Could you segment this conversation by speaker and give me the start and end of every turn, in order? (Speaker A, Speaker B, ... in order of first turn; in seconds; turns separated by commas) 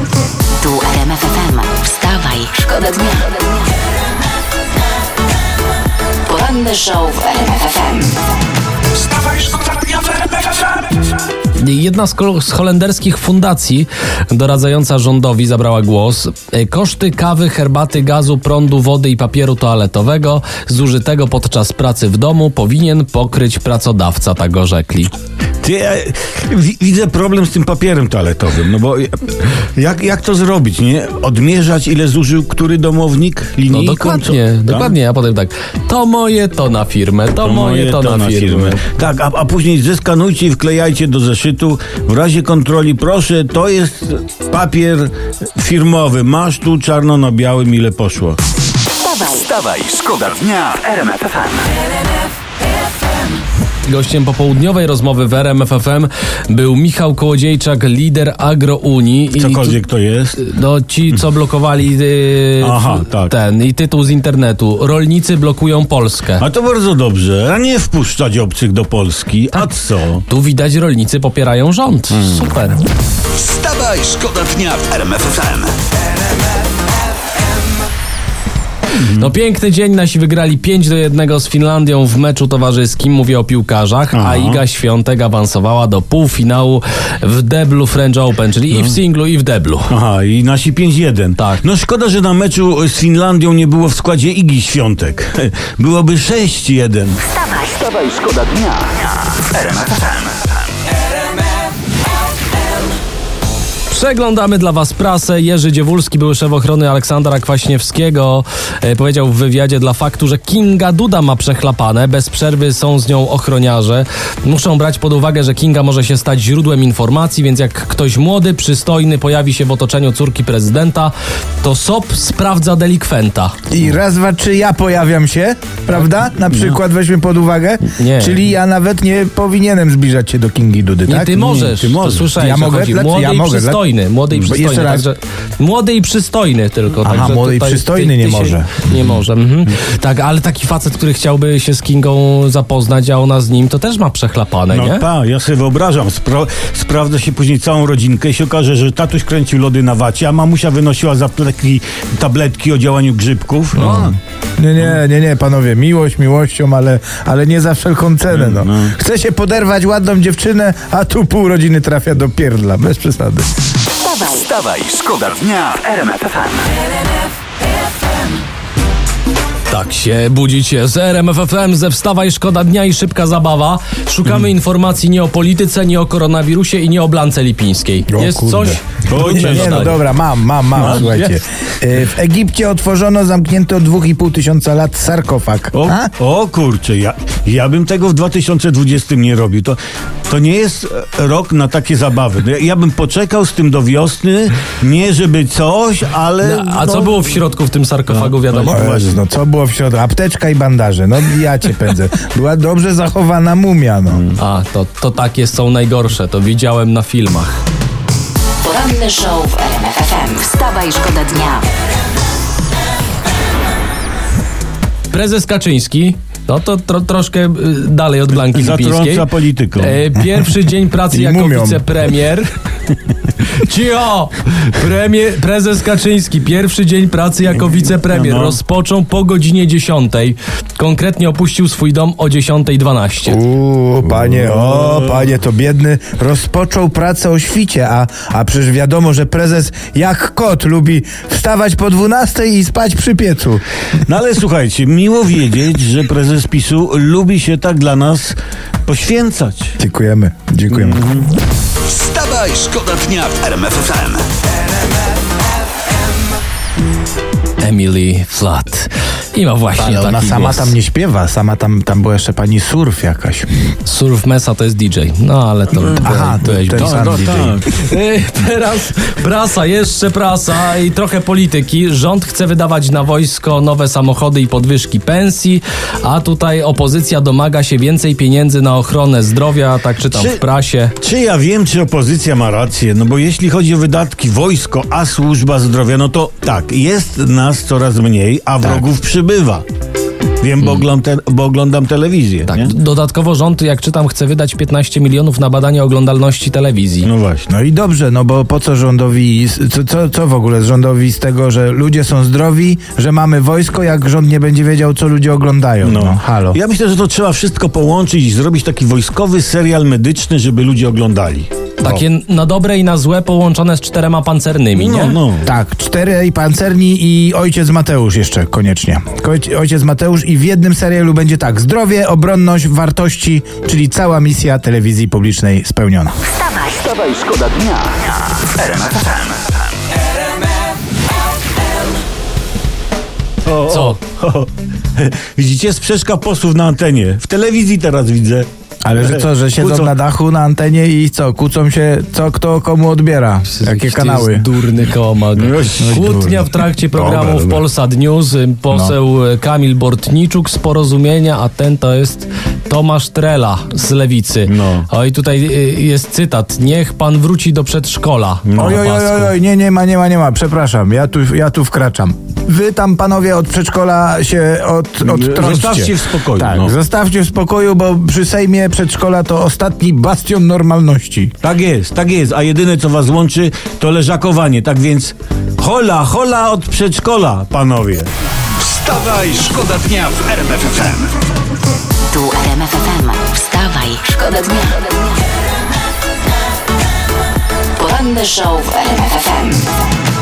Speaker A: 0.6-3.5, Speaker A: 6.2-8.2, Speaker B: 9.5-10.4, Speaker C: 11.6-25.1, Speaker D: 25.6-34.9, Speaker C: 33.7-38.8, Speaker D: 37.4-48.4, Speaker A: 49.0-49.5, Speaker B: 49.3-51.7, Speaker C: 53.8-59.8, Speaker D: 59.4-60.4, Speaker C: 60.4-66.4, Speaker D: 62.6-63.3, Speaker D: 66.4-70.2, Speaker C: 69.5-72.8, Speaker D: 72.1-72.4, Speaker B: 73.3-75.7, Speaker D: 78.9-79.3, Speaker C: 79.1-89.9, Speaker D: 84.1-84.6, Speaker D: 88.7-89.0, Speaker D: 89.9-97.2, Speaker C: 91.4-91.6, Speaker A: 97.3-97.8, Speaker B: 97.7-100.5, Speaker C: 103.9-123.5, Speaker E: 123.7-131.4, Speaker D: 126.5-126.8, Speaker C: 128.0-128.4, Speaker C: 131.1-145.1, Speaker D: 131.4-132.3, Speaker E: 132.3-135.1, Speaker E: 137.0-139.2, Speaker D: 144.7-154.2, Speaker E: 153.8-163.5, Speaker D: 158.3-158.9, Speaker A: 164.0-164.5, Speaker B: 164.3-166.7, Speaker C: 169.7-180.0, Speaker E: 178.1-186.1, Speaker D: 179.1-180.0, Speaker D: 180.7-181.0, Speaker C: 180.8-181.4, Speaker D: 185.7-197.3, Speaker C: 196.4-198.8, Speaker D: 198.1-199.2, Speaker E: 198.7-204.2, Speaker D: 204.1-204.4, Speaker C: 204.4-207.5, Speaker A: 208.6-211.7, Speaker C: 215.1-219.2, Speaker D: 218.3-220.0, Speaker C: 219.8-222.5, Speaker E: 221.1-221.8, Speaker C: 223.4-233.4, Speaker D: 228.0-228.6, Speaker E: 233.2-243.6, Speaker D: 234.1-235.3, Speaker D: 244.0-249.8, Speaker E: 249.8-251.0, Speaker D: 250.7-251.3, Speaker B: 251.8-254.3, Speaker C: 257.6-260.7, Speaker E: 259.8-263.5, Speaker C: 263.8-280.9, Speaker D: 265.7-266.0, Speaker E: 266.0-267.6, Speaker D: 266.7-267.7, Speaker D: 280.1-280.4, Speaker D: 281.0-289.6, Speaker D: 290.4-292.7, Speaker C: 292.5-297.1, Speaker D: 297.0-297.4, Speaker E: 297.5-306.6, Speaker D: 305.8-312.0, Speaker C: 311.8-315.2, Speaker D: 314.7-315.5, Speaker E: 315.4-326.1, Speaker A: 326.3-326.9, Speaker B: 326.8-329.6, Speaker D: 333.4-339.9, Speaker C: 333.7-334.0, Speaker E: 338.8-344.5, Speaker C: 343.5-359.3, Speaker D: 345.4-346.1, Speaker E: 345.8-346.5, Speaker D: 346.9-347.6, Speaker D: 354.4-354.9, Speaker D: 358.5-358.8, Speaker E: 358.6-371.3, Speaker D: 365.0-366.7, Speaker D: 371.4-381.0, Speaker B: 378.6-381.1, Speaker A: 382.1-385.1, Speaker A: 387.8-389.7